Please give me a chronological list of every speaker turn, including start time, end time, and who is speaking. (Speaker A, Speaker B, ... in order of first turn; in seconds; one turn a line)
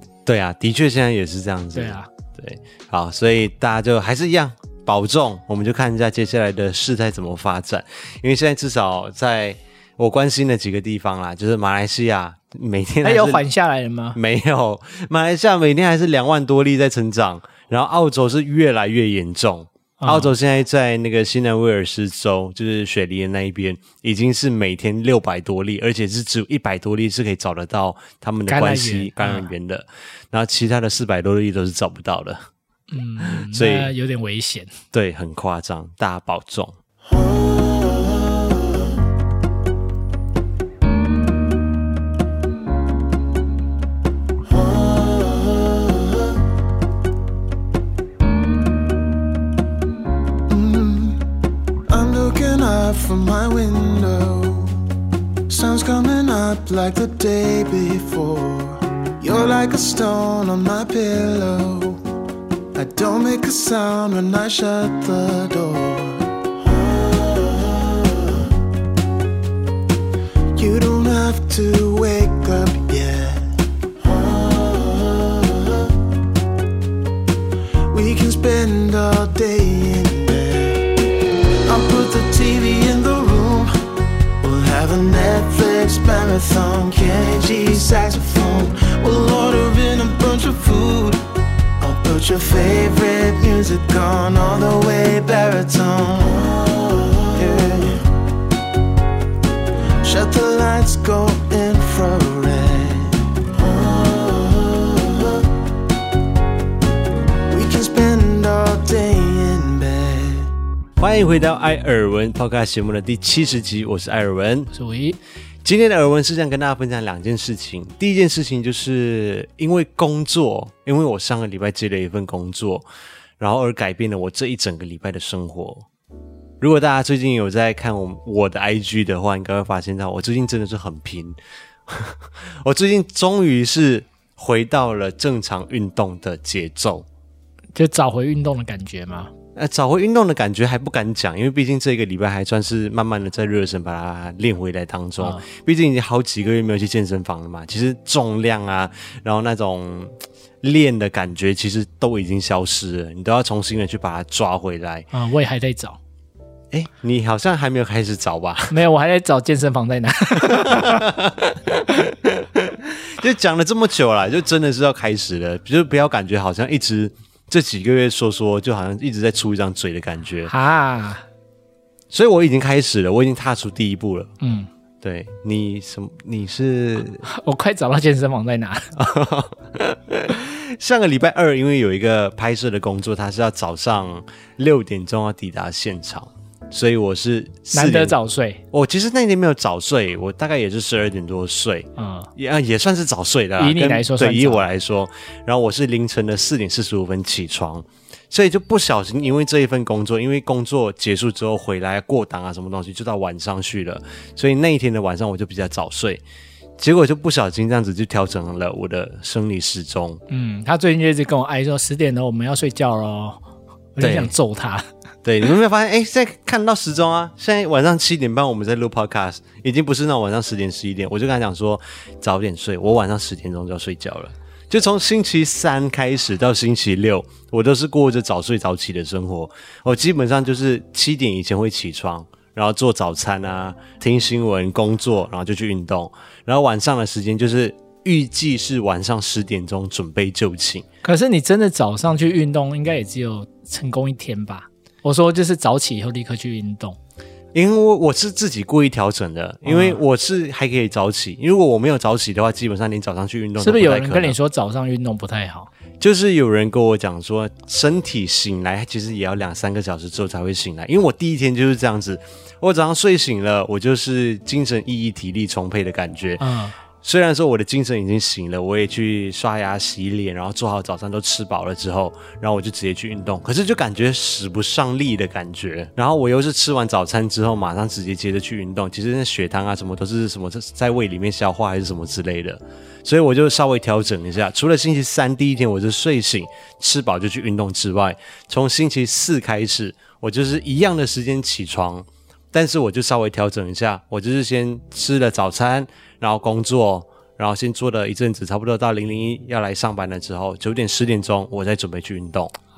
Speaker A: 0.2-13.4
Speaker B: 1.7-2.1
Speaker B: 13.0-14.2
Speaker A: 14.1-32.4
Speaker B: 20.0-20.3
Speaker B: 28.5-29.5
Speaker B: 32.9-34.7
Speaker A: 33.2-33.9
Speaker A: 34.9-36.8
Speaker C: 37.1-38.8
Speaker C: 44.4-46.4
Speaker C: 50.5-51.2
Speaker C: 51.9-54.8
Speaker C: 55.5-62.0
Speaker C: 62.7-68.5
Speaker C: 70.5-75.9
Speaker C: 77.9-81.0
Speaker C: 81.7-83.8
Speaker C: 84.4-91.2
Speaker C: 91.8-98.0
Speaker C: 100.0-105.5
Speaker C: 107.5-110.5
Speaker A: 111.0-114.7
Speaker B: 114.7-115.2
Speaker A: 115.6-122.9
Speaker A: 123.4-125.8
Speaker A: 126.6-137.1
Speaker B: 137.7-139.3
Speaker A: 139.6-155.1
Speaker B: 145.2-145.4
Speaker B: 155.1-156.0
Speaker A: 156.7-158.7
Speaker B: 158.7-161.1
Speaker A: 160.4-170.5
Speaker B: 170.5-171.2
Speaker A: 172.1-174.3
Speaker B: 174.4-174.7
Speaker A: 175.0-177.2
Speaker B: 177.2-178.9
Speaker A: 178.9-188.2
Speaker B: 187.7-188.6
Speaker A: 188.7-206.2
Speaker B: 192.0-192.3
Speaker B: 193.6-194.6
Speaker A: 206.8-210.2
Speaker B: 210.3-213.4
Speaker B: 213.9-214.8
Speaker A: 214.0-214.3
Speaker A: 215.2-240.8
Speaker B: 241.0-247.0
Speaker A: 247.5-254.4
Speaker B: 249.6-250.0
Speaker B: 253.6-255.7
Speaker A: 256.0-266.4
Speaker B: 266.4-266.8
Speaker A: 267.0-302.5